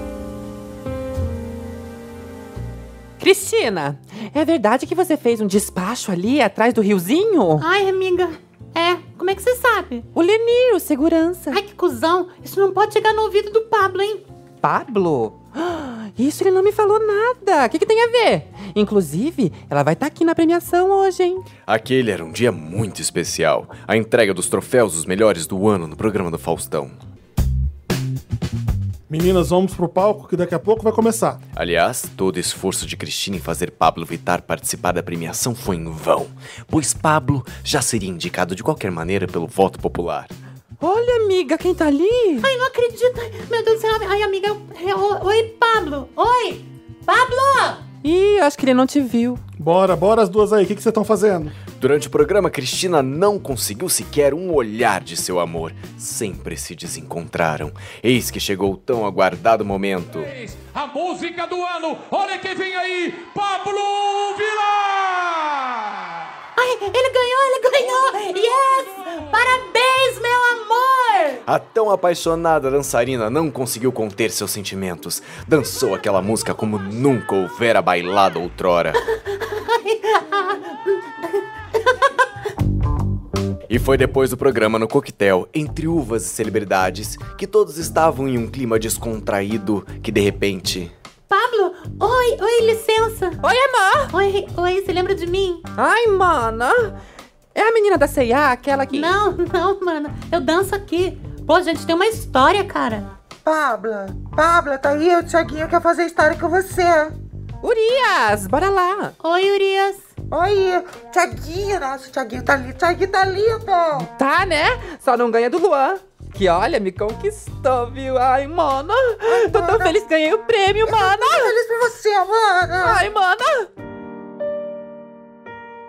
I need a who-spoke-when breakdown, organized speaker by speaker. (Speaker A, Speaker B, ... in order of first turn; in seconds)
Speaker A: 3.2-7.7, 10.1-11.6, 14.6-21.5, 40.8-42.5, 48.0-49.4, 93.4-94.1, 95.8-97.0, 97.5-99.2, 107.6-109.1, 114.0-121.6, 122.8-123.7
Speaker B: 7.6-10.1, 11.5-14.2, 42.4-47.8, 66.6-71.4, 79.3-82.2, 91.3-93.4, 94.1-95.7, 98.9-103.1, 109.2-110.0
Speaker C: 21.7-27.0, 31.6-40.3, 51.7-60.3, 71.5-79.0, 83.7-90.9
Speaker D: 29.1-31.4, 49.6-51.5
Speaker E: 60.2-66.0
Speaker F: 103.4-107.2, 110.3-114.1, 119.2-119.9, 120.8-123.0